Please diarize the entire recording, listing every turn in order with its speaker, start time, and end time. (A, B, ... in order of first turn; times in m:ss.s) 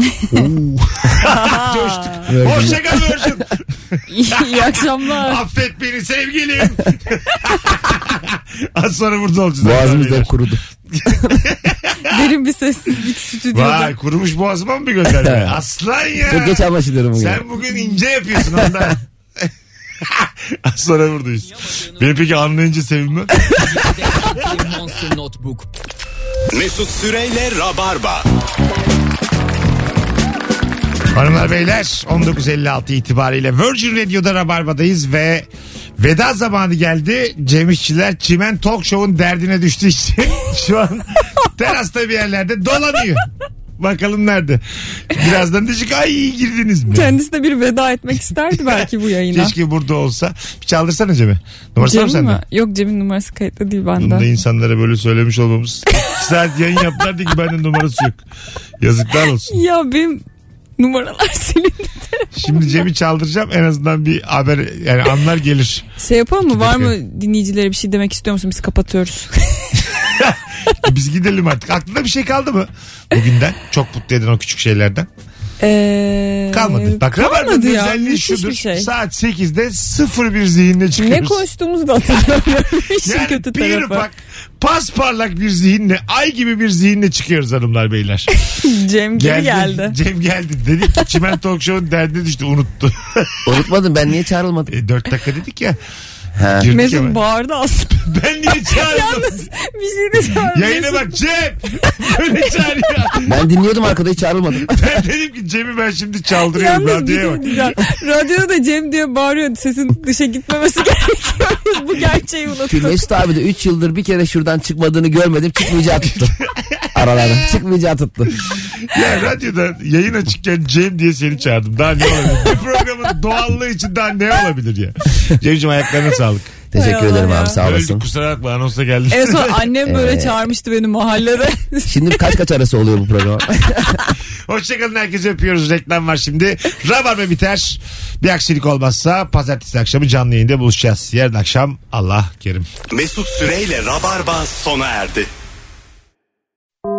0:00.3-0:10.3 A
0:01.2-0:02.3 B
0:02.3-0:02.8 C
0:04.1-0:05.4 B
0:09.6-0:11.3 C
0:10.9-0:12.0 A
0:12.1-0:13.9 B
0:13.5-0:16.6 A
0:15.1-0:15.6 C
0:16.2-0:17.4 C
0:17.2-0:19.5 A
0:20.0-0:23.5 A
0:23.7-0:25.6 D
0:26.5-0:28.2 D
0:31.1-0:35.4 A
0:36.0-0:43.3 A
0:43.8-0:47.2 A
0:46.9-0:49.5 B
0:48.6-0:52.4 A
0:51.8-0:54.2 B
0:54.0-0:58.2 A
0:58.8-0:59.6 A
0:59.5-1:00.2 B
1:00.8-1:02.8 B
1:02.4-1:05.8 A
1:06.0-1:09.6 B
1:06.4-1:06.9 A
1:10.2-1:15.1 A
1:15.6-1:18.9 B
1:16.5-1:21.4 A
1:21.0-1:24.0 B
1:23.0-1:28.3 A
1:28.4-1:29.9 B
1:29.2-1:33.4 A
1:33.4-1:34.7 C
1:34.7-1:35.8 A
1:36.4-1:36.7 C
1:36.6-1:37.2 A
1:36.7-1:41.2 B
1:38.0-1:39.4 A
1:40.5-1:43.4 A
1:43.2-1:45.0 C
1:44.7-1:47.7 A
1:46.5-1:53.0 B
1:52.7-1:56.3 C
1:56.9-1:58.3 C
1:58.9-2:06.6 A
2:06.7-2:08.0 C
2:06.7-2:07.6 B
2:07.6-2:09.7 A
2:09.1-2:12.2 B
2:09.8-2:10.4 C
2:11.9-2:14.1 C
2:14.5-2:22.6 A
2:22.9-2:25.3 D